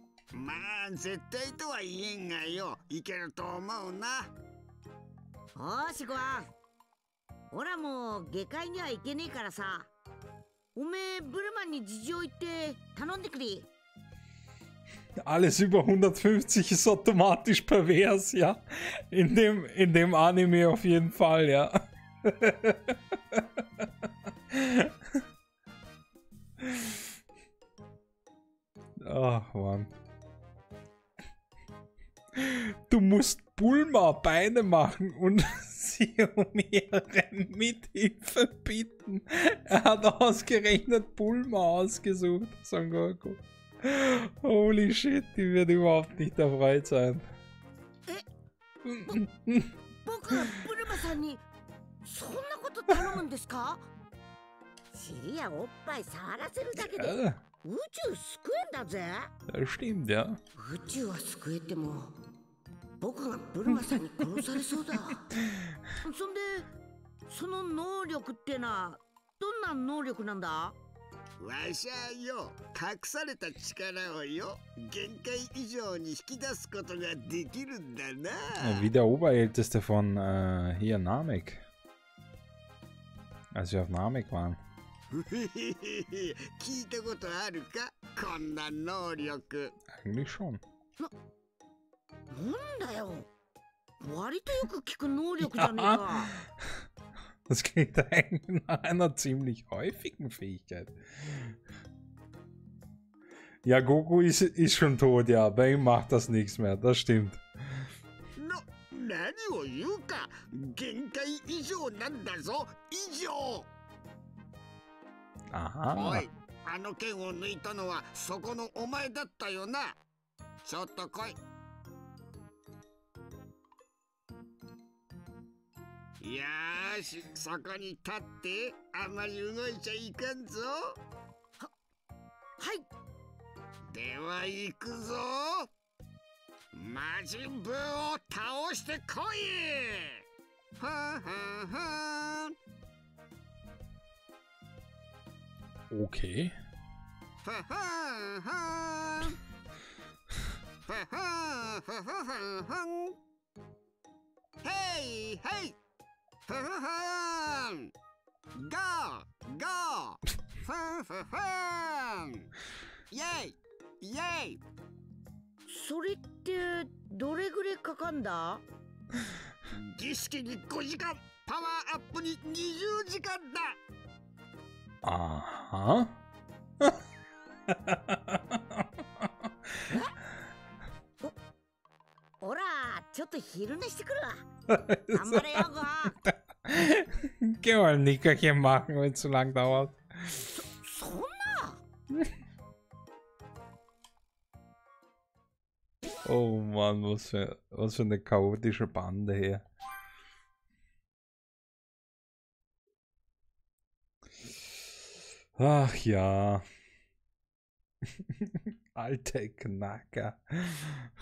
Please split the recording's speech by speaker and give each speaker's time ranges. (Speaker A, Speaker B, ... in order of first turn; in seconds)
Speaker A: 0.3-4.3, 71.4-78.9, 85.1-89.7, 108.3-113.7, 115.9-120.0, 120.6-121.4, 126.2-131.0, 133.9-135.7, 136.7-140.2, 140.8-142.5, 147.4-149.4, 150.9-153.1, 154.6-155.7, 156.5-157.9, 158.6-162.4, 163.1-164.6, 169.7-173.8
Speaker B: 5.5-6.5, 7.5-9.9, 10.7-13.7, 50.0-51.4, 52.0-53.9, 54.9-59.3, 60.6-62.1, 63.0-65.3, 66.0-66.7, 67.3-70.8, 92.3-93.3, 94.0-96.3, 132.6-132.9, 165.7-168.6, 179.9-180.1, 182.4-184.4, 185.1-186.1, 190.5-191.8
Speaker C: 15.2-23.9, 24.5-25.2, 26.6-27.0, 29.0-29.9, 32.3-47.3, 48.8-49.7, 56.8-57.4, 59.5-60.4, 78.6-81.6, 83.5-84.6, 89.9-90.6, 95.4-96.2, 97.5-101.5, 103.6-107.4, 115.5-116.2, 145.9-146.5, 175.0-176.2, 177.7-179.5, 184.7-185.7, 186.2-190.4, 196.2-199.6, 205.6-206.6, 208.4-211.1